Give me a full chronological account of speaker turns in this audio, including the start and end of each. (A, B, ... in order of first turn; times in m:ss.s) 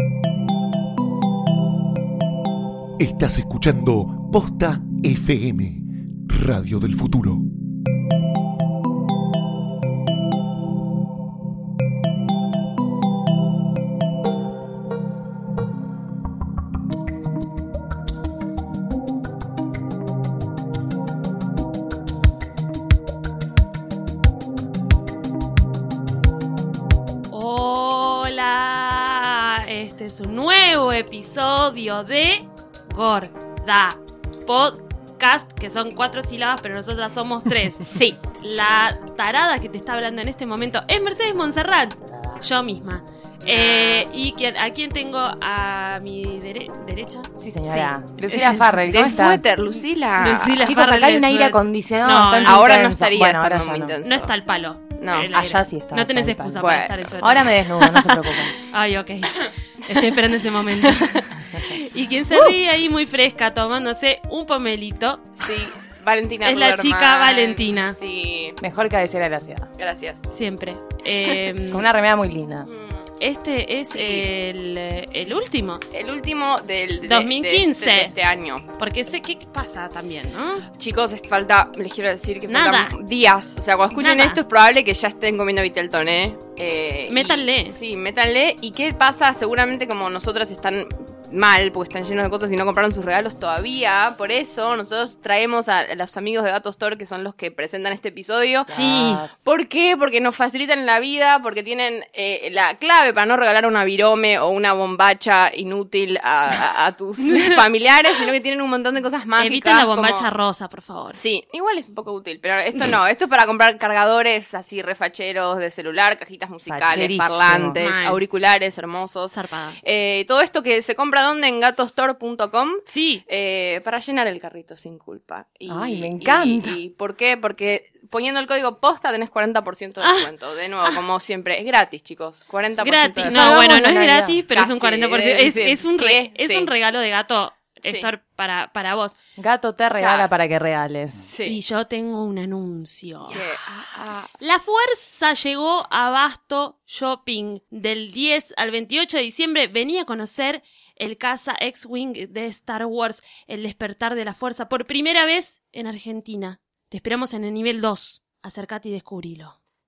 0:03.0-0:07.5 A
0:27.3-0:48.8 B
0:37.9-0:38.2 C
0:43.5-0:44.1 C
0:47.4-0:49.4 D
0:48.9-0:50.8 C
0:49.7-0:52.6 B
0:50.6-0:54.0 D
0:52.4-0:54.3 C
0:54.0-1:05.4 B
0:55.0-0:55.3 C
0:55.3-0:56.7 D
0:56.6-0:57.3 C
0:57.2-0:58.6 D
0:59.4-1:00.1 C
1:00.7-1:01.3 C
1:05.4-1:08.6 C
1:06.4-1:08.0 B
1:08.6-1:09.7 D
1:09.8-1:10.3 C
1:10.3-1:11.9 B
1:11.7-1:12.7 D
1:12.7-1:13.0 C
1:13.2-1:15.8 B
1:13.9-1:14.3 C
1:15.9-1:18.7 C
1:17.0-1:18.1 B
1:18.8-1:20.6 B
1:20.8-1:38.8 C
1:22.5-1:22.9 B
1:24.0-1:24.4 B
1:27.1-1:27.8 B
1:38.7-1:39.4 D
1:38.7-1:39.2 B
1:39.4-1:50.3 C
1:47.2-1:47.6 B
1:49.4-1:51.2 B
1:51.2-2:13.6 C
1:56.7-1:57.8 D
1:57.8-1:58.2 B
1:59.3-1:59.8 B
2:02.9-2:03.2 B
2:05.7-2:06.8 D
2:10.0-2:10.3 B
2:12.8-2:19.2 B
2:13.2-2:14.4 D
2:14.5-2:16.7 C
2:19.4-2:21.3 D
2:20.0-2:20.3 C
2:21.3-2:21.6 C
2:21.4-2:23.4 B
2:23.3-2:24.4 C
2:24.4-2:39.6 B